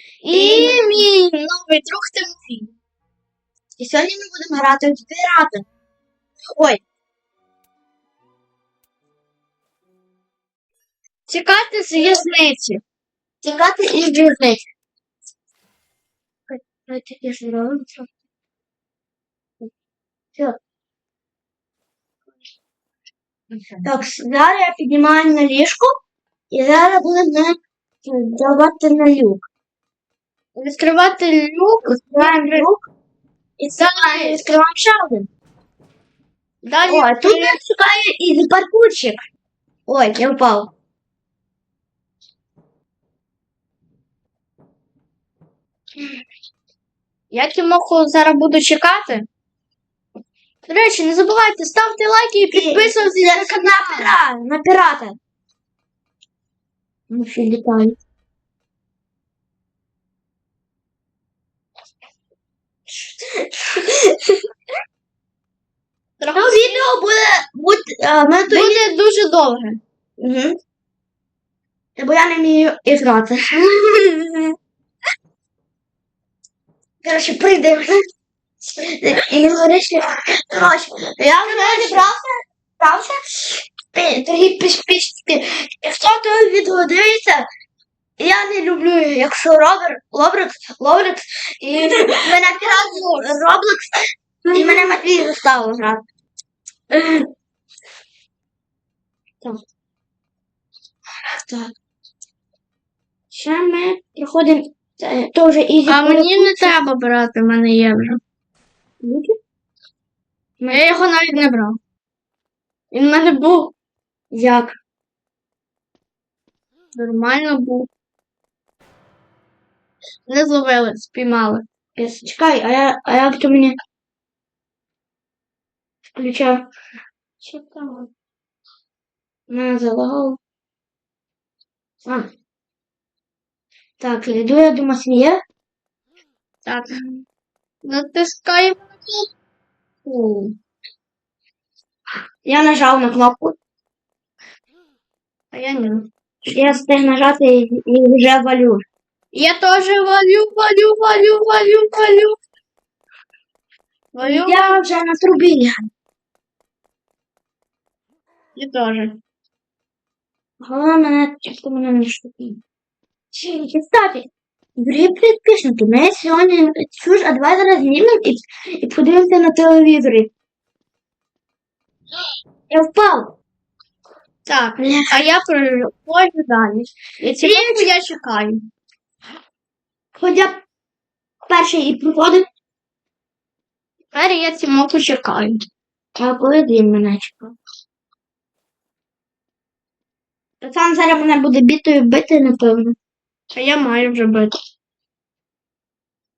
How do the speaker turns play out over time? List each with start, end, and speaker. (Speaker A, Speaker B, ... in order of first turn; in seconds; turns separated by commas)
Speaker A: 0.2-2.7, Speaker B: 0.3-1.1, Speaker B: 3.8-5.7, Speaker B: 6.5-6.8, Speaker A: 11.3-12.8, Speaker B: 13.4-14.6, Speaker B: 16.5-18.1, Speaker B: 23.8-25.9, Speaker B: 26.5-29.5, Speaker A: 30.5-32.7, Speaker B: 31.8-32.9, Speaker B: 33.6-35.3, Speaker A: 33.8-34.4, Speaker A: 36.6-37.6, Speaker B: 36.9-39.2, Speaker B: 39.9-40.7, Speaker A: 47.3-49.3, Speaker A: 50.6-54.1, Speaker B: 52.5-55.2, Speaker B: 57.1-58.0, Speaker B: 63.2-64.4, Speaker A: 66.2-66.9, Speaker B: 66.3-68.8, Speaker A: 68.5-69.8, Speaker B: 70.2-70.6, Speaker B: 72.0-73.6, Speaker A: 73.8-74.5, Speaker B: 77.0-78.0, Speaker B: 78.8-87.5, Speaker A: 81.4-82.1, Speaker B: 88.2-96.0, Speaker A: 91.7-93.2, Speaker A: 96.9-97.2, Speaker B: 101.3-101.7, Speaker B: 103.3-106.7, Speaker A: 105.8-108.2, Speaker B: 109.0-109.3, Speaker B: 110.6-110.8, Speaker A: 110.7-111.8, Speaker A: 112.9-113.7, Speaker B: 114.3-114.8, Speaker A: 116.9-117.9, Speaker A: 120.3-121.6, Speaker B: 122.0-123.8, Speaker B: 126.0-126.7, Speaker A: 127.4-128.1, Speaker B: 129.5-130.4, Speaker B: 132.0-132.3, Speaker B: 134.0-135.4, Speaker A: 136.6-137.0, Speaker A: 137.8-139.3, Speaker B: 140.1-140.5, Speaker B: 142.4-143.6, Speaker A: 145.5-146.1, Speaker B: 146.4-148.8, Speaker A: 149.3-152.4, Speaker A: 154.1-154.8, Speaker B: 154.2-155.9, Speaker A: 158.6-159.2, Speaker B: 160.6-162.6, Speaker B: 163.3-170.3, Speaker B: 172.7-173.3, Speaker A: 174.4-178.7, Speaker B: 174.8-175.2, Speaker B: 177.2-177.9, Speaker B: 180.1-180.6, Speaker B: 181.4-182.4, Speaker A: 184.1-185.6, Speaker B: 186.2-187.5, Speaker B: 190.6-192.9, Speaker A: 193.5-194.5